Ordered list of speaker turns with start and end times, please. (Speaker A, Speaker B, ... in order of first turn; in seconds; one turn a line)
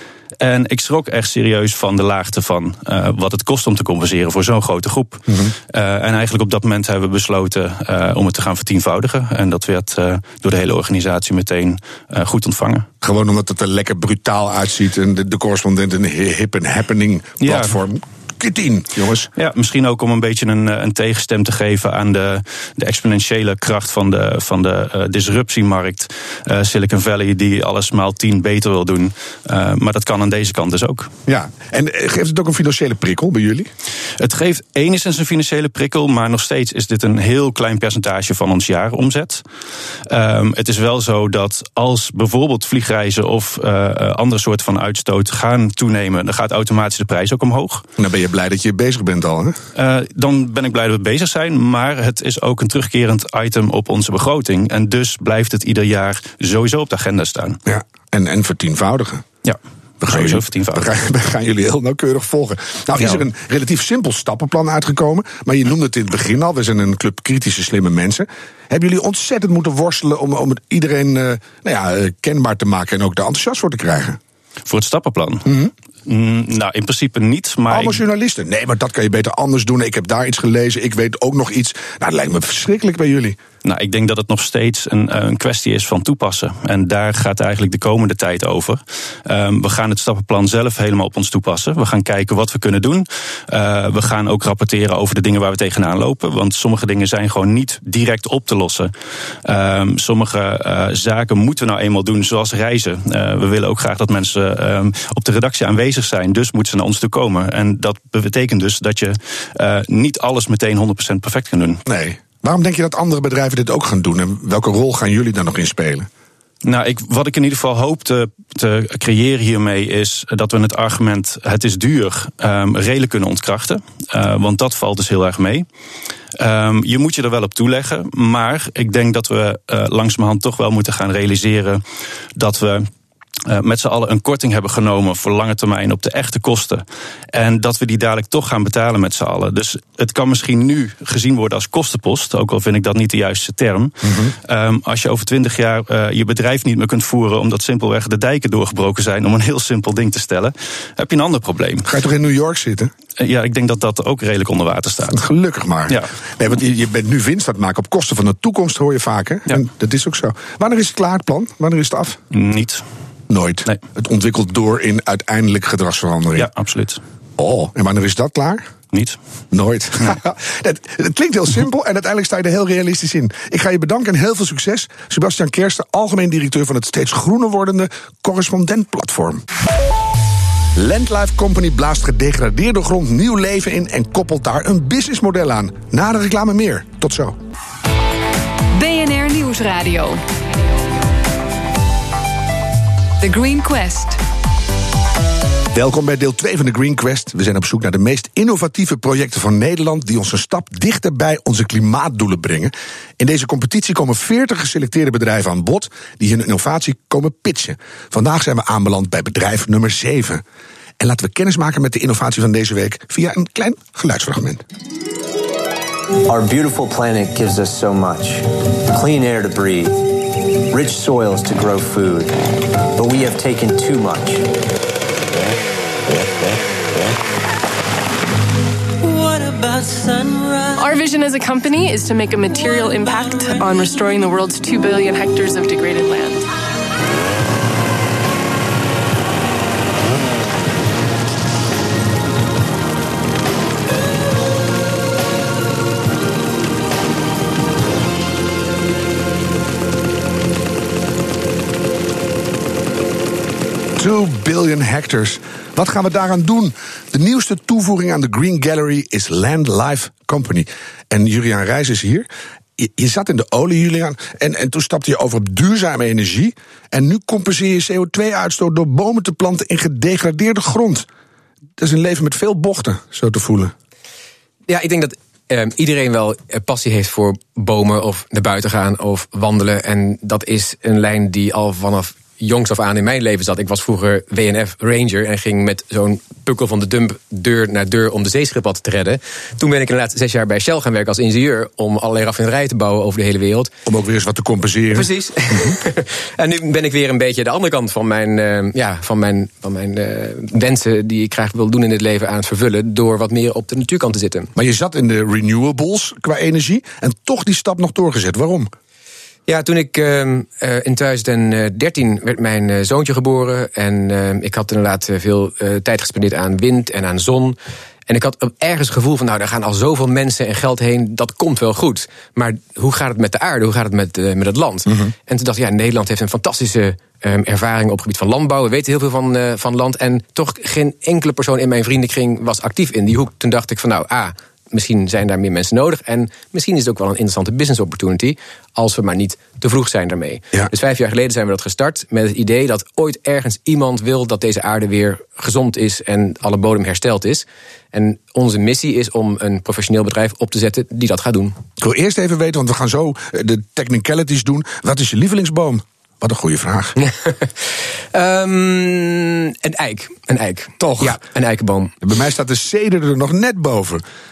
Speaker A: 0.4-12.9
Speaker B: 5.3-5.5
Speaker B: 13.0-19.3
Speaker A: 17.4-17.7
Speaker A: 19.4-31.1
Speaker B: 31.3-33.7
Speaker A: 34.2-39.4
Speaker A: 40.0-47.9
Speaker B: 48.0-49.6
Speaker A: 49.7-57.6
Speaker B: 57.6-59.2
Speaker A: 59.4-60.9
Speaker B: 60.1-74.2
Speaker A: 74.7-75.5
Speaker B: 75.5-75.7
Speaker A: 76.0-78.0
Speaker B: 77.7-83.4
Speaker A: 83.6-98.9
Speaker A: 99.4-111.8
Speaker B: 111.8-116.1
Speaker A: 116.6-125.7
Speaker A: 126.3-131.8
Speaker A: 132.3-132.9
Speaker A: 133.4-143.9
Speaker B: 144.0-144.3
Speaker A: 144.4-151.9
Speaker B: 151.8-152.9
Speaker A: 153.2-155.2
Speaker B: 155.1-162.2
Speaker A: 162.3-162.8
Speaker B: 163.3-166.5
Speaker A: 166.3-167.0
Speaker B: 167.4-168.7
Speaker A: 168.9-169.2
Speaker B: 169.5-179.4
Speaker B: 180.8-187.4
Speaker C: 188.7-190.2
Speaker C: 193.2-194.2
Speaker B: 195.7-210.4
Speaker B: 211.0-214.6
Speaker D: 216.2-222.4
Speaker D: 222.9-224.7
Speaker D: 229.0-230.7
Speaker E: 230.7-236.5
Speaker B: 254.0-271.1
Speaker B: 271.8-273.7
Speaker F: 274.7-293.7
Speaker B: 293.9-295.8
Speaker F: 294.9-304.5
Speaker B: 304.5-308.7
Speaker F: 309.5-351.6
Speaker B: 351.8-357.0
Speaker F: 357.0-361.9
Speaker B: 360.8-361.2
Speaker B: 362.0-364.0